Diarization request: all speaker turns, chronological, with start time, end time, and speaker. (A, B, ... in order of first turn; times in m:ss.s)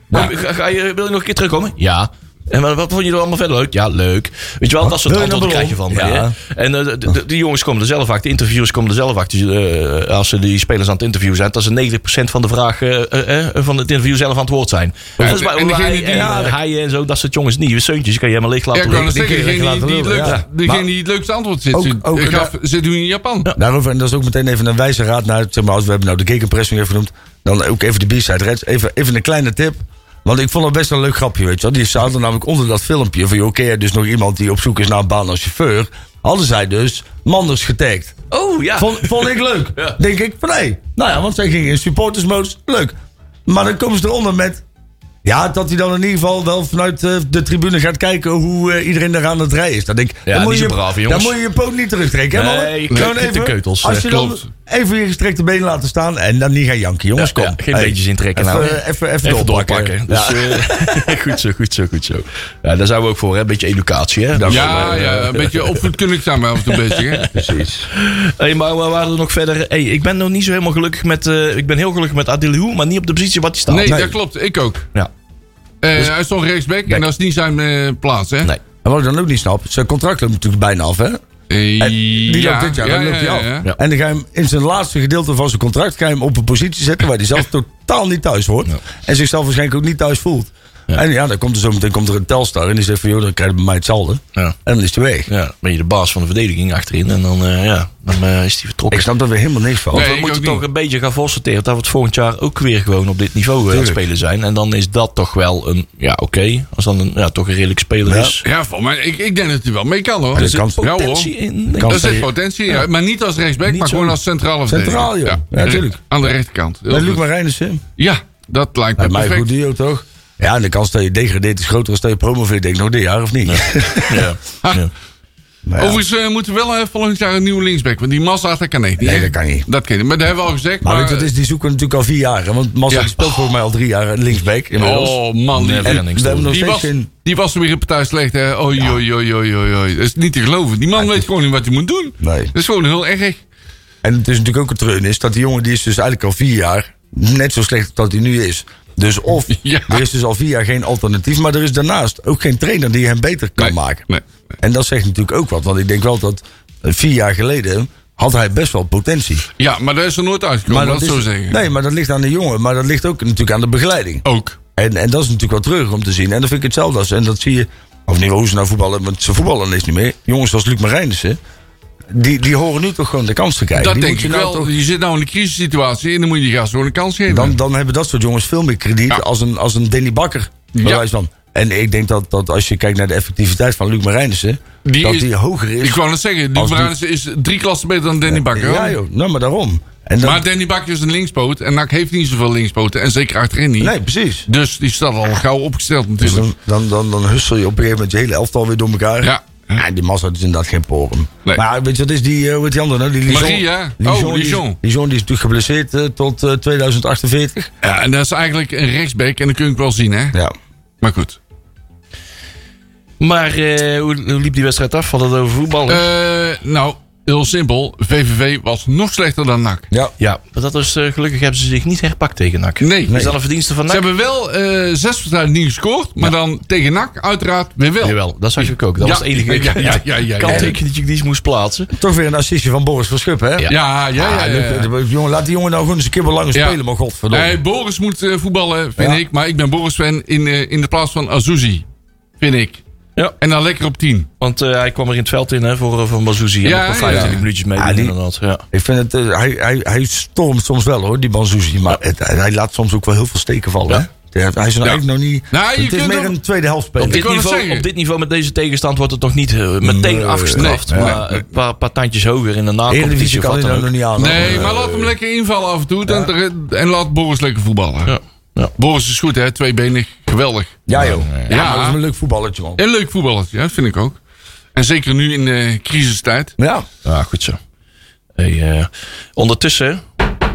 0:00.1-0:19.2 A
0:04.8-0:06.4 B
0:15.2-0:16.4 C
0:16.1-0:16.6 B
0:18.7-0:23.5 C
0:18.9-0:20.9 B
0:20.2-0:20.4 A
0:21.7-0:22.5 B
0:23.6-0:38.2 B
0:38.3-0:40.0 A
0:38.8-0:44.6 B
0:45.2-1:01.1 B
0:50.3-0:51.4 A
0:52.3-0:54.1 A
0:54.1-0:54.5 C
0:57.2-1:05.9 A
1:04.3-1:05.3 B
1:04.5-1:07.3 C
1:06.7-1:14.0 A
1:07.3-1:07.9 B
1:13.7-1:14.9 C
1:13.9-1:14.2 B
1:15.8-1:18.5 C
1:18.8-1:21.2 B
1:21.5-1:23.7 C
1:21.8-1:35.3 B
1:35.3-1:39.1 A
1:38.9-1:40.1 B
1:39.9-1:40.6 C
1:39.9-1:48.4 A
1:43.7-1:44.0 B
1:48.1-1:48.4 B
1:48.4-1:51.3 C
1:50.3-1:50.8 B
1:50.4-1:52.3 A
1:51.8-1:52.3 B
1:51.8-1:57.2 C
1:53.7-1:54.2 A
1:54.7-1:56.0 B
1:56.9-1:57.8 B
1:58.0-1:59.5 C
1:59.0-2:04.3 B
2:03.5-2:04.9 A
2:05.6-2:06.0 B
2:05.8-2:11.3 C
2:09.0-2:09.7 B
2:10.8-2:15.2 B
2:12.9-2:13.3 C
2:14.8-2:23.4 C
2:15.5-2:16.5 A
2:15.8-2:17.1 B
2:21.0-2:21.3 B
2:22.2-2:22.5 B
2:24.0-2:34.1 B
2:29.5-2:30.0 C
2:33.6-2:34.2 C
2:34.6-2:39.5 B
2:39.6-2:41.6 C
2:40.7-2:51.4 B
2:44.3-2:44.6 C
2:52.1-2:54.7 B
2:53.8-2:57.6 C
2:57.3-3:06.0 B
3:00.8-3:01.0 C
3:04.8-3:05.3 C
3:05.8-3:09.0 C
3:06.6-3:06.9 B
3:08.2-3:10.4 B
3:10.2-3:14.0 C
3:13.8-3:14.5 B
3:14.5-3:16.5 C
3:16.2-3:27.7 B
3:19.2-3:19.8 C
3:23.3-3:24.8 C
3:27.8-3:30.4 C
3:31.0-3:31.4 C
3:33.2-3:36.1 A
3:35.9-3:39.9 C
3:40.2-3:44.1 A
3:42.8-3:43.2 C
3:43.1-3:43.3 B
3:43.9-3:50.8 C
3:48.0-3:51.9 A
3:50.5-3:50.7 B
3:51.9-3:57.6 B
3:53.7-3:54.9 C
3:56.5-3:56.8 C
3:57.3-4:01.9 C
3:59.0-3:59.2 B
4:02.4-4:02.8 C
4:03.4-4:04.3 C
4:04.4-4:08.6 A
4:06.6-4:07.4 C
4:07.1-4:08.2 B
4:08.7-4:17.2 B
4:14.8-4:16.4 C
4:17.0-4:25.0 A
4:17.0-4:17.9 C
4:19.8-4:21.2 B
4:20.6-4:21.4 C
4:22.9-4:25.1 B
4:24.2-4:28.1 C
4:26.1-4:26.3 B
4:28.1-4:28.7 A
4:28.8-4:30.8 C
4:30.9-4:32.8 B
4:31.0-4:31.5 A
4:31.5-4:32.0 C
4:32.8-4:34.2 C
4:34.8-4:36.6 C
4:36.6-4:36.9 B
4:37.0-4:37.6 A
4:38.4-4:40.1 A